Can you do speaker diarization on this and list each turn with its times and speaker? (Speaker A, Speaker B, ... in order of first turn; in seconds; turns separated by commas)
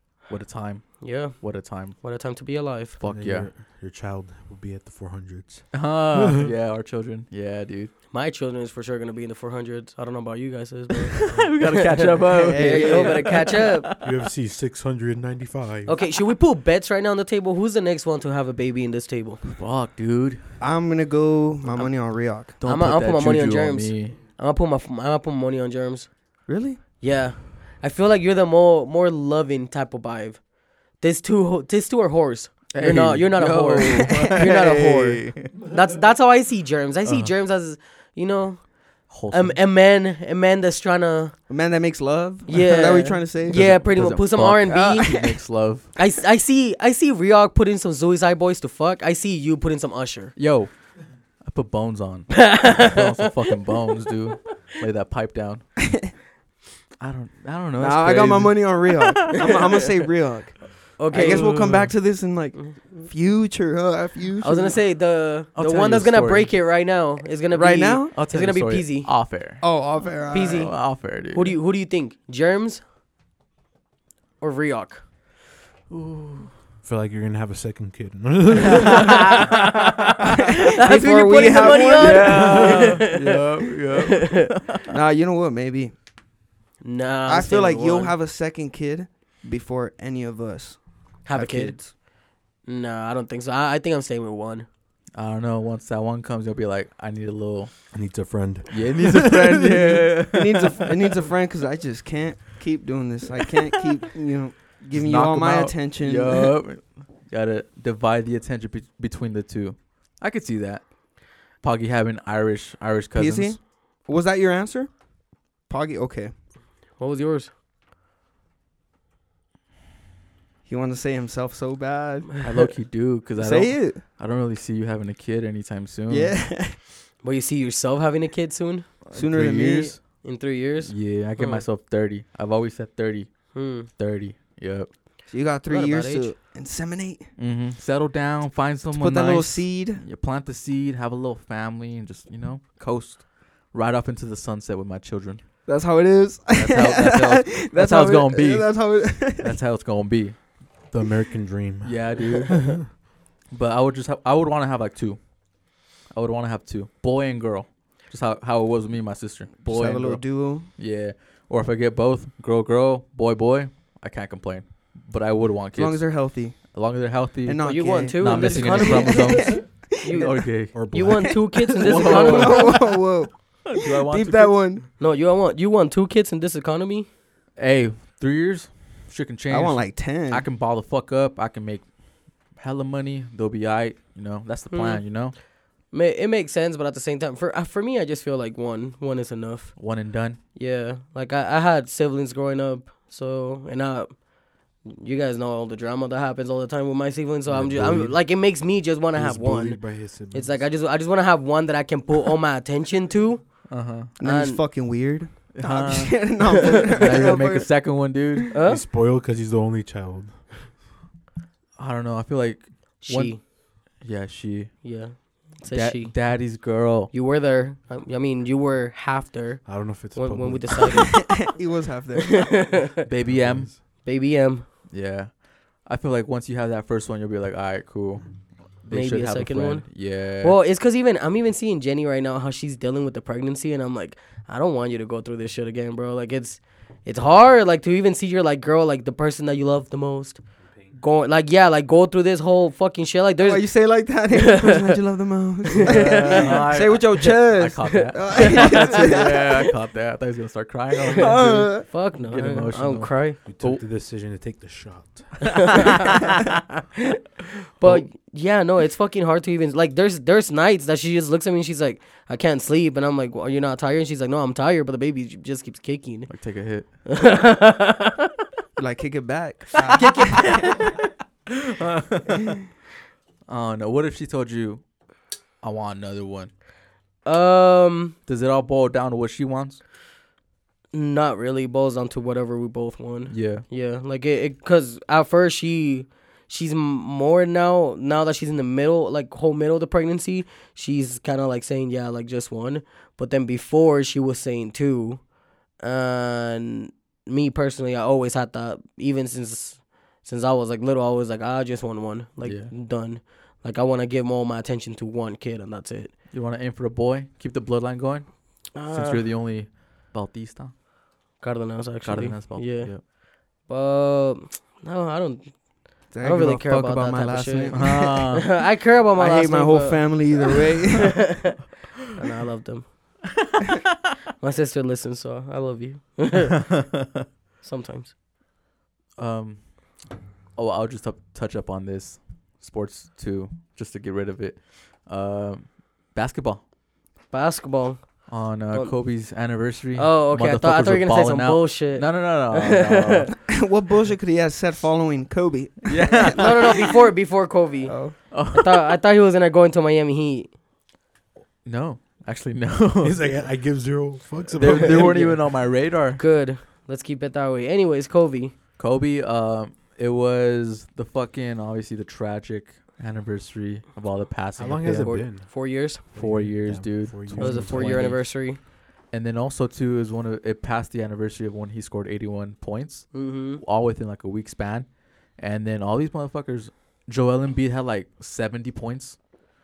Speaker A: 0.2-2.0, Speaker B: 1.0-3.0, Speaker A: 3.0-3.5, Speaker C: 3.0-6.5, Speaker A: 5.7-7.9, Speaker B: 8.1-11.4, Speaker A: 11.1-14.1, Speaker D: 12.4-13.5, Speaker B: 12.4-13.9, Speaker C: 14.0-15.9, Speaker B: 15.8-19.4, Speaker A: 19.5-20.6, Speaker D: 20.6-22.6, Speaker A: 22.6-24.2, Speaker B: 22.6-26.1, Speaker D: 26.5-26.8, Speaker B: 27.0-41.4, Speaker A: 32.7-35.5, Speaker D: 34.2-34.8, Speaker A: 37.0-37.3, Speaker A: 39.1-39.6, Speaker D: 41.5-43.8, Speaker B: 42.5-45.3, Speaker A: 43.5-45.9, Speaker B: 45.9-50.3, Speaker A: 50.4-56.1, Speaker B: 52.4-53.2, Speaker A: 57.0-59.6, Speaker D: 57.8-64.8, Speaker B: 61.0-61.6, Speaker A: 61.1-61.9, Speaker B: 64.4-69.1, Speaker A: 65.5-66.5, Speaker D: 67.5-68.1, Speaker A: 68.1-71.5, Speaker D: 69.6-70.7, Speaker B: 70.3-72.8, Speaker B: 74.4-75.0, Speaker A: 75.9-76.5, Speaker C: 76.8-79.2, Speaker A: 78.8-79.7, Speaker B: 78.9-80.2, Speaker D: 80.5-82.8, Speaker B: 80.7-84.5, Speaker A: 81.9-84.8, Speaker D: 84.9-85.9, Speaker B: 86.8-88.2, Speaker D: 87.3-91.9, Speaker B: 91.2-92.0, Speaker B: 92.6-94.7, Speaker A: 95.1-97.9, Speaker C: 97.9-99.9, Speaker A: 98.7-101.1, Speaker D: 100.2-106.5, Speaker A: 104.9-113.6, Speaker D: 113.1-115.0, Speaker D: 115.6-116.3, Speaker B: 117.0-117.5, Speaker D: 120.7-122.7, Speaker A: 122.4-126.4, Speaker D: 123.4-124.0, Speaker D: 126.1-126.8, Speaker B: 127.2-128.9, Speaker A: 129.1-130.2, Speaker D: 129.1-129.9, Speaker B: 130.2-131.6, Speaker A: 130.8-134.9, Speaker B: 133.5-133.9, Speaker D: 135.3-137.3, Speaker B: 135.7-136.3, Speaker A: 137.4-145.4, Speaker D: 138.9-140.0, Speaker D: 145.7-149.6, Speaker A: 146.5-150.4, Speaker C: 150.9-152.8, Speaker A: 151.8-153.0, Speaker A: 153.5-155.3, Speaker A: 156.1-170.8, Speaker D: 159.7-160.7, Speaker D: 165.7-166.7, Speaker D: 167.4-170.4, Speaker B: 167.6-172.8, Speaker C: 170.7-171.5, Speaker D: 171.6-174.8, Speaker A: 171.8-172.9, Speaker A: 173.6-174.6, Speaker B: 175.0-177.1, Speaker A: 177.6-181.9, Speaker D: 179.5-180.5, Speaker A: 182.5-185.3, Speaker B: 184.7-185.1, Speaker B: 185.9-189.8, Speaker A: 189.8-190.4, Speaker B: 190.5-194.2, Speaker B: 194.8-203.6, Speaker C: 197.5-198.4, Speaker C: 199.1-200.7, Speaker A: 203.7-204.1, Speaker D: 204.2-207.7, Speaker B: 204.2-204.6, Speaker A: 205.5-208.5, Speaker B: 208.5-208.8, Speaker C: 208.7-210.7, Speaker A: 211.8-213.5, Speaker B: 213.0-213.4, Speaker A: 214.0-215.2, Speaker B: 214.8-216.2, Speaker A: 215.7-217.1, Speaker B: 217.1-221.4, Speaker C: 219.6-221.1, Speaker D: 221.0-222.7, Speaker B: 222.3-223.0, Speaker A: 223.0-223.8, Speaker C: 223.2-223.8, Speaker B: 224.0-224.7, Speaker A: 224.9-230.6, Speaker B: 228.9-240.4, Speaker B: 240.9-243.7, Speaker D: 243.4-249.7, Speaker B: 244.3-244.9, Speaker B: 245.8-246.7, Speaker A: 245.8-253.8, Speaker B: 247.9-249.3, Speaker D: 251.2-251.9, Speaker B: 251.9-253.4, Speaker C: 253.4-255.9, Speaker B: 255.7-256.0, Speaker B: 257.8-266.3, Speaker A: 257.8-258.1, Speaker A: 266.3-266.9, Speaker B: 267.1-268.3, Speaker D: 268.8-270.9, Speaker B: 269.9-270.6, Speaker A: 271.5-272.6, Speaker A: 273.5-274.8, Speaker A: 275.6-276.5, Speaker B: 277.2-278.1, Speaker A: 278.3-279.8, Speaker B: 280.9-306.1, Speaker A: 283.3-283.6, Speaker A: 302.4-302.7, Speaker A: 306.3-310.7, Speaker B: 308.7-309.2, Speaker B: 311.4-313.1, Speaker A: 312.0-313.0, Speaker B: 313.6-321.5, Speaker D: 316.1-318.2, Speaker A: 317.7-318.5, Speaker D: 319.2-321.3, Speaker B: 322.1-323.2, Speaker B: 324.4-326.6, Speaker A: 326.6-327.2, Speaker B: 327.6-328.1, Speaker A: 329.2-329.9, Speaker A: 330.6-336.6, Speaker B: 337.3-339.0, Speaker A: 338.3-343.3, Speaker B: 339.9-343.3, Speaker D: 343.4-346.8, Speaker A: 345.9-346.9, Speaker B: 346.3-350.5, Speaker D: 347.9-348.1, Speaker A: 348.3-348.9, Speaker A: 351.6-353.4, Speaker C: 353.0-355.2, Speaker A: 354.5-356.2, Speaker B: 354.6-355.5, Speaker B: 356.1-358.5, Speaker A: 358.8-365.4, Speaker C: 364.6-368.1, Speaker B: 364.8-366.0, Speaker A: 366.1-368.4, Speaker B: 367.4-368.6, Speaker A: 369.1-379.2, Speaker B: 373.1-373.6